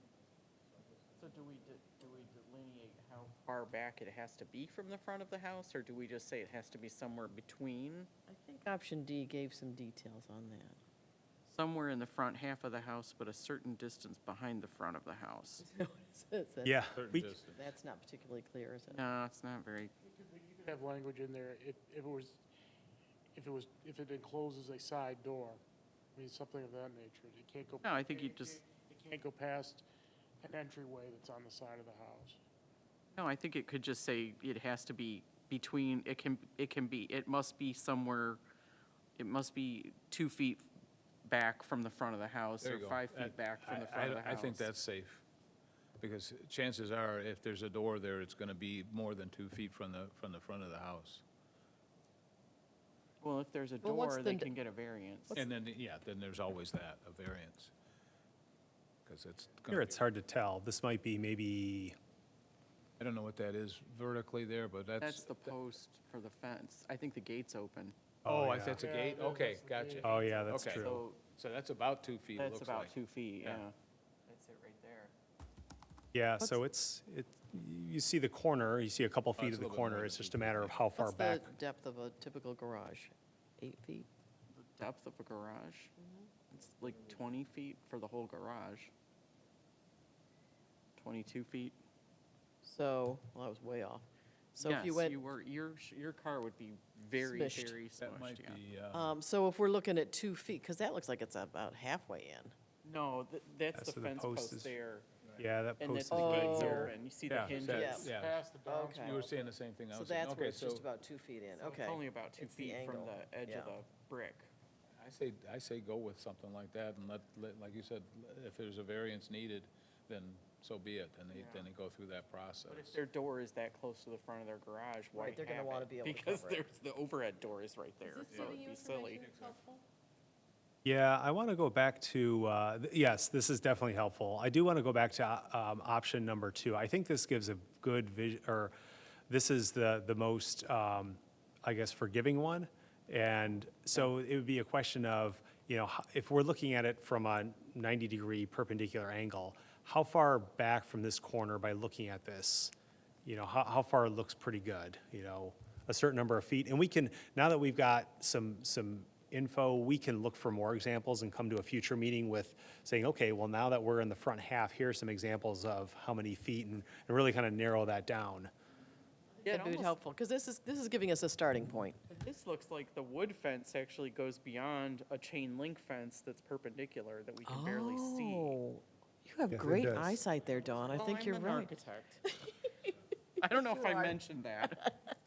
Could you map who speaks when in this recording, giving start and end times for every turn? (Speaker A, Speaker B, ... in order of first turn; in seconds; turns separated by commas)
Speaker A: 1.2-8.1, Speaker B: 8.3-10.8, Speaker A: 11.5-15.6, Speaker B: 15.6-16.8, Speaker C: 16.6-17.3, Speaker D: 16.9-17.6, Speaker B: 17.5-19.1, Speaker A: 18.9-19.9, Speaker E: 20.0-22.4, Speaker E: 23.3-25.6, Speaker E: 26.1-29.8, Speaker A: 27.8-28.6, Speaker E: 30.4-32.4, Speaker A: 33.1-38.4, Speaker A: 39.2-40.7, Speaker A: 41.2-44.7, Speaker D: 42.6-45.2, Speaker D: 46.0-51.2, Speaker A: 53.2-55.5, Speaker B: 53.8-54.5, Speaker D: 55.3-57.7, Speaker D: 59.0-60.0, Speaker C: 59.7-61.9, Speaker D: 63.0-65.5, Speaker A: 65.0-68.0, Speaker C: 68.2-68.8, Speaker D: 68.2-73.6, Speaker E: 68.8-70.6, Speaker C: 70.0-71.0, Speaker A: 70.6-71.2, Speaker A: 72.3-73.7, Speaker A: 74.3-75.1, Speaker C: 76.1-81.5, Speaker D: 79.3-80.8, Speaker B: 81.0-84.1, Speaker A: 84.5-85.9, Speaker B: 86.0-86.3, Speaker A: 86.5-88.9, Speaker A: 91.0-91.8, Speaker B: 92.6-95.2, Speaker A: 94.6-98.6, Speaker B: 97.2-97.8, Speaker D: 98.0-99.2, Speaker B: 98.9-102.5, Speaker A: 102.8-105.1, Speaker C: 103.7-104.7, Speaker C: 105.4-106.9, Speaker A: 105.8-108.1, Speaker B: 106.1-106.9, Speaker D: 107.3-108.4, Speaker E: 107.4-109.5, Speaker B: 107.6-109.2, Speaker D: 109.0-110.8, Speaker B: 109.9-113.7, Speaker A: 111.6-114.5, Speaker D: 115.0-123.0, Speaker A: 121.3-121.7, Speaker A: 122.7-129.3, Speaker B: 125.1-126.7, Speaker B: 128.0-129.8, Speaker D: 128.3-128.6, Speaker D: 129.3-129.5, Speaker C: 130.8-138.7, Speaker C: 139.3-152.7, Speaker C: 153.2-168.5, Speaker A: 169.4-169.9, Speaker B: 169.5-172.0, Speaker A: 172.1-178.6, Speaker B: 177.4-181.7, Speaker C: 179.5-180.2, Speaker A: 180.8-182.2, Speaker B: 182.3-182.9, Speaker A: 183.4-184.8, Speaker B: 183.7-184.2